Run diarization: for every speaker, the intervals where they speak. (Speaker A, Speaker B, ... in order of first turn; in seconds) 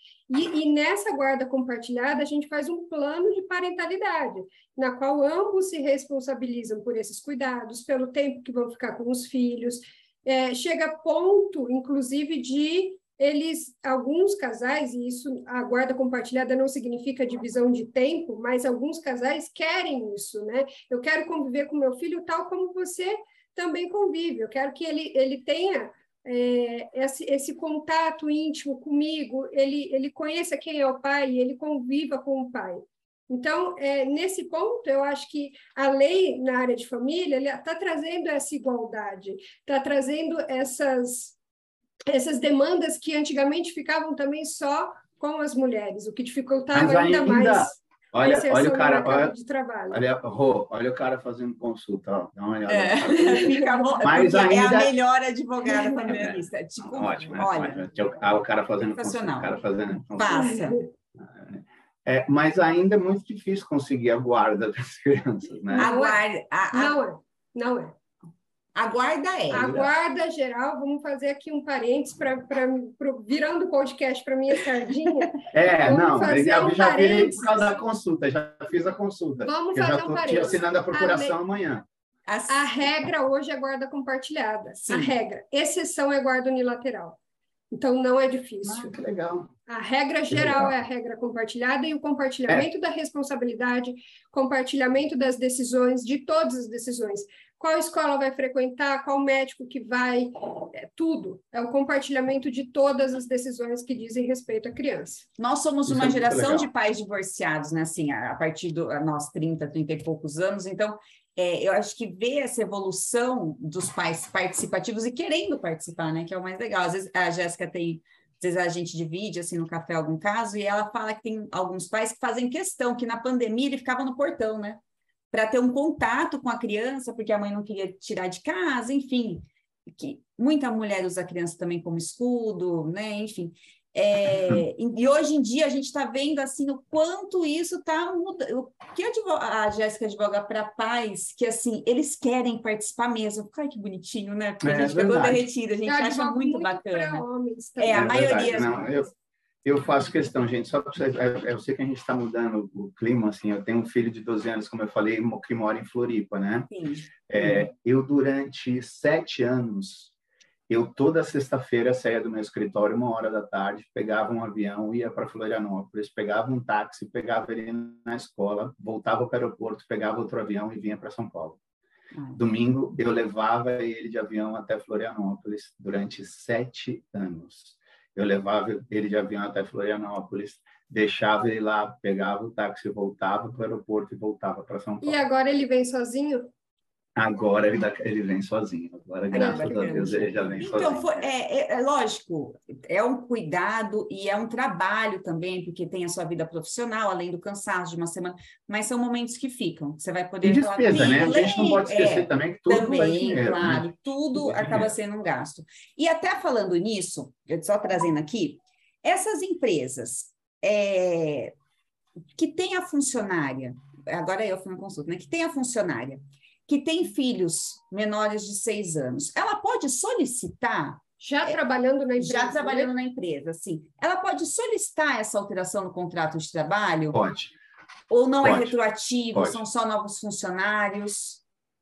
Speaker A: 0.3-41.4, 42.1-50.0, 53.2-54.2, 60.4-60.8, 65.7-66.2, 66.7-68.0, 69.5-77.6, 79.4-81.3, 82.5-87.2, 87.7-88.9, 89.7-105.2, 145.9-148.5, 185.0-186.5, 189.3-190.2, 221.2-222.9
Speaker B: 46.7-49.3, 49.9-54.9, 55.9-60.5, 61.2-65.9, 69.5-69.9, 75.5-81.9, 88.6-89.5, 90.3-90.7, 105.9-106.7, 144.6-145.4, 147.9-149.1, 149.7-156.7, 157.3-160.1, 160.7-171.6, 172.3-185.2, 187.2-191.1, 200.4-205.0, 227.1-227.6, 228.4-228.8, 229.3-229.6
Speaker C: 52.7-57.8, 59.0-59.6, 60.1-60.9, 65.8-67.0, 68.8-69.8, 82.3-82.7, 84.8-85.1, 105.4-124.8, 125.3-129.5, 130.0-147.2, 147.8-148.8, 156.7-157.7, 189.3-211.6, 212.3-221.6, 222.2-227.2, 228.1-231.4